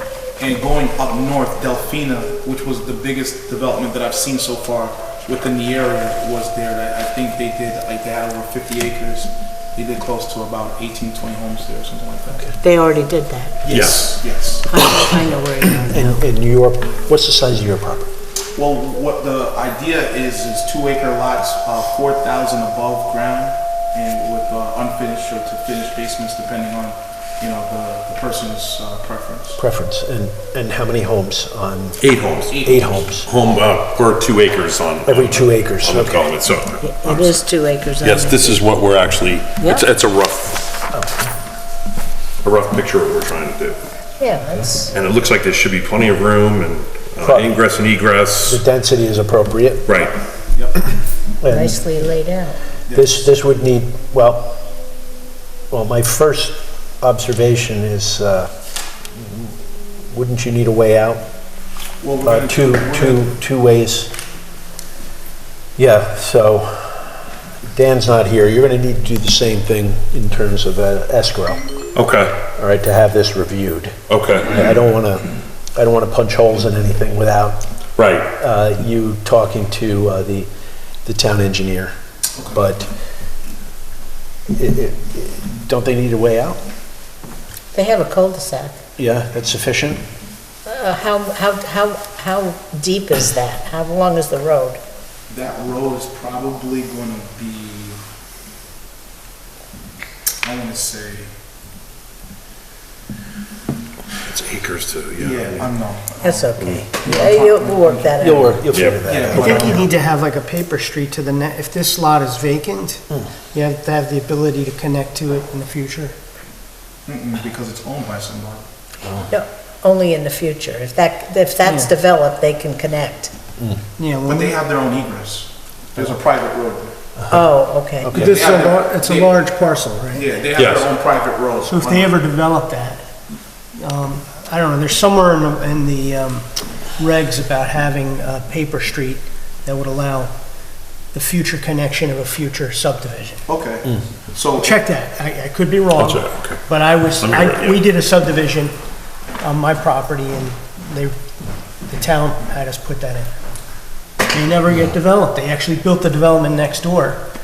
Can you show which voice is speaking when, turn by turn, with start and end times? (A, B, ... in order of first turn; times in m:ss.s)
0:00.4-0:12.5 A
0:12.6-0:13.6 B
0:13.6-0:14.6 A
0:13.7-0:14.1 C
0:14.7-0:16.2 B
0:15.8-0:18.1 D
0:18.6-0:29.6 A
0:29.6-0:32.0 D
0:32.0-0:32.7 C
0:32.5-0:33.0 A
0:32.6-0:33.3 D
0:33.2-0:37.4 C
0:35.0-0:36.3 D
0:36.8-0:38.6 B
0:38.0-0:40.6 C
0:39.6-0:39.9 B
0:40.9-0:41.3 D
0:42.4-0:43.8 C
0:44.2-0:44.9 B
0:44.9-0:48.6 C
0:47.2-0:47.6 D
0:48.4-0:50.0 D
0:49.8-0:50.1 C
0:50.5-0:50.8 A
0:51.4-0:51.8 D
0:51.4-0:52.6 B
0:52.9-0:53.2 A
0:52.9-0:54.6 D
0:55.7-0:58.5 D
0:59.1-0:59.5 D
1:00.1-1:01.2 D
1:02.0-1:03.3 A
1:02.2-1:04.1 D
1:05.8-1:07.2 D
1:07.7-1:11.6 D
1:11.9-1:12.4 C
1:12.6-1:17.6 D
1:14.1-1:14.6 C
1:18.0-1:18.3 C
1:18.4-1:20.5 D
1:21.0-1:21.9 D
1:22.4-1:22.6 A
1:22.5-1:22.9 D
1:24.5-1:26.6 D
1:27.7-1:28.8 B
1:29.0-1:30.0 D
1:30.6-1:34.8 B
1:35.3-1:38.0 A
1:40.4-1:41.3 A
1:44.2-1:45.7 C
1:45.2-1:48.5 A
1:46.2-1:48.6 B
1:48.2-1:49.8 D
1:48.7-1:49.1 C
1:49.0-1:49.9 A
1:49.3-1:49.8 B
1:49.3-1:56.1 E
1:57.1-1:58.6 A
1:59.0-1:59.3 D
1:59.3-2:03.3 B
2:01.6-2:01.9 E
2:04.0-2:04.6 E
2:04.2-2:06.9 A
2:07.2-2:08.5 D
2:07.3-2:08.1 B
2:08.1-2:10.4 E
2:08.1-2:09.4 A
2:10.1-2:12.2 A
2:10.6-2:10.9 C
2:11.6-2:13.0 E
2:13.8-2:20.3 E
2:21.1-2:23.4 E
2:23.5-2:24.7 A
2:24.6-2:28.7 E
2:25.9-2:27.9 C
2:29.4-2:31.1 E
2:31.8-2:33.3 E
2:34.3-2:37.3 E